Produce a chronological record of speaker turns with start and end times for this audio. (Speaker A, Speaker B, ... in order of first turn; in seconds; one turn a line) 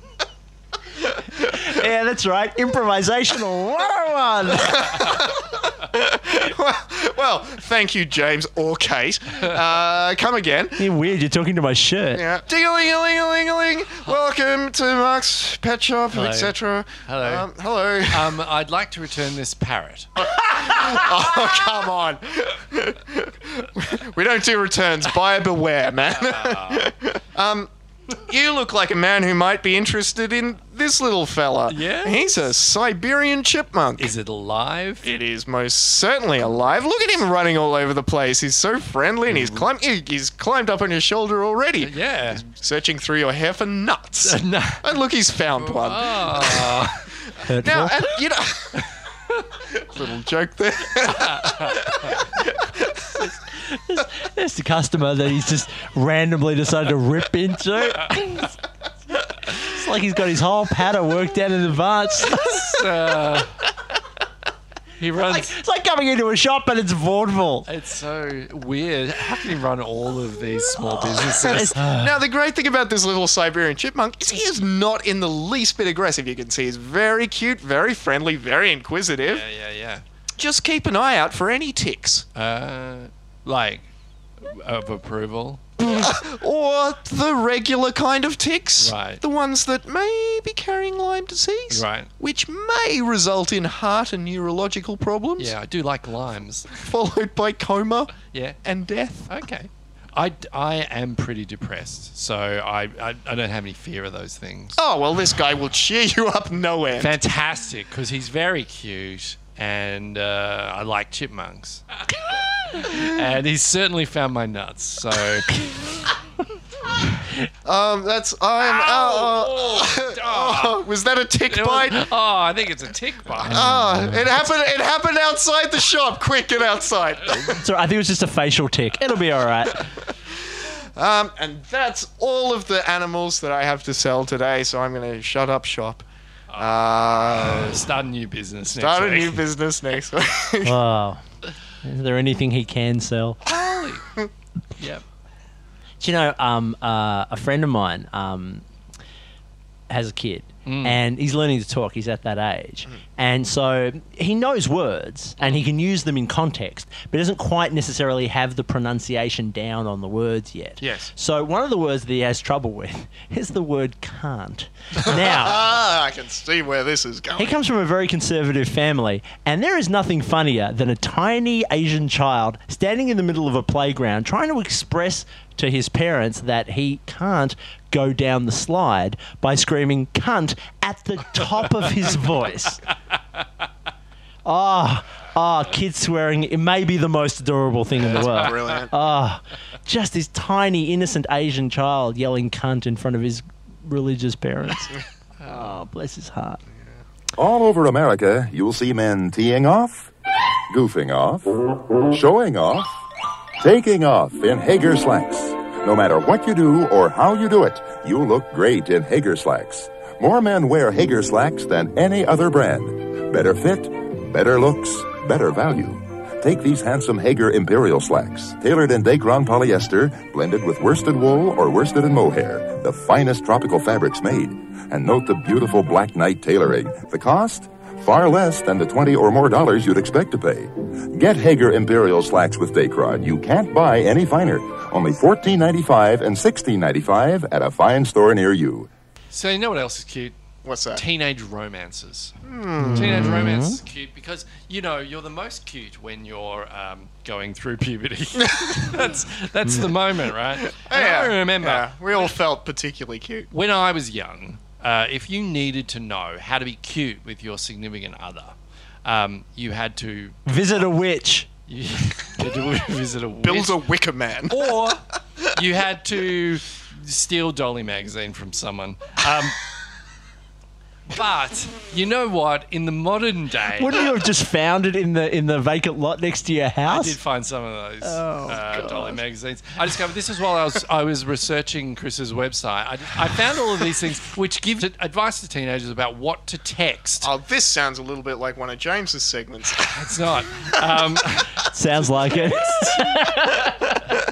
Speaker A: 1.5-5.0
Speaker B: 4.6-10.9
Speaker A: 10.8-12.2
Speaker B: 12.1-18.4
Speaker C: 16.1-16.5
Speaker C: 17.1-17.4
Speaker C: 18.1-20.1
Speaker B: 20.2-34.1
Speaker C: 26.0-26.9
Speaker C: 31.7-32.5
Speaker C: 34.0-35.1
Speaker B: 35.0-48.9
Speaker C: 39.3-39.6
Speaker C: 41.8-42.4
Speaker C: 44.2-44.8
Speaker C: 45.6-47.1
Speaker A: 47.5-48.0
Speaker B: 49.7-53.2
Speaker C: 51.1-51.8
Speaker A: 53.5-58.5
Speaker A: 59.5-62.8
Speaker C: 62.3-63.6
Speaker C: 65.0-65.5
Speaker A: 65.2-67.7
Speaker C: 67.7-71.8
Speaker B: 71.2-79.4
Speaker A: 71.5-72.1
Speaker C: 79.2-80.0
Speaker B: 80.4-82.2
Speaker C: 82.3-83.8
Speaker C: 84.4-85.6
Speaker B: 85.8-95.5
Speaker C: 88.8-89.2
Speaker C: 91.7-92.1
Speaker C: 95.4-96.7
Speaker B: 96.7-99.3
Speaker C: 98.3-98.6
Speaker C: 99.3-104.8
Speaker B: 104.8-107.1
Speaker C: 107.0-111.8
Speaker C: 112.7-115.6
Speaker B: 117.6-122.0
Speaker C: 118.6-120.8
Speaker C: 121.5-123.7
Speaker B: 123.4-127.6
Speaker A: 123.5-124.2
Speaker A: 127.6-129.8
Speaker B: 130.9-136.0
Speaker C: 136.5-139.4
Speaker B: 136.6-137.8
Speaker B: 138.7-140.8
Speaker A: 140.6-141.2
Speaker A: 141.8-143.4
Speaker C: 143.4-144.1
Speaker A: 146.0-148.6
Speaker A: 149.9-165.7
Speaker C: 150.7-151.0
Speaker B: 160.8-161.1
Speaker B: 165.0-167.5
Speaker A: 167.3-182.8
Speaker A: 184.4-196.6
Speaker B: 188.0-188.9
Speaker C: 188.2-188.6
Speaker D: 197.3-200.1
Speaker D: 200.7-203.0
Speaker D: 203.6-238.9
Speaker C: 239.3-240.3
Speaker B: 240.6-241.0
Speaker C: 240.9-242.3
Speaker B: 242.4-243.4
Speaker A: 242.8-243.8
Speaker C: 242.9-252.3
Speaker B: 248.4-248.7
Speaker B: 250.7-253.5
Speaker C: 253.5-258.5
Speaker C: 259.0-260.4
Speaker A: 260.4-261.5
Speaker C: 261.7-263.8
Speaker B: 263.4-264.7
Speaker C: 264.5-269.6
Speaker C: 271.1-274.0
Speaker A: 273.8-277.1
Speaker C: 276.9-287.3
Speaker A: 278.0-278.9
Speaker B: 287.2-289.9
Speaker C: 289.8-293.2
Speaker A: 291.7-293.9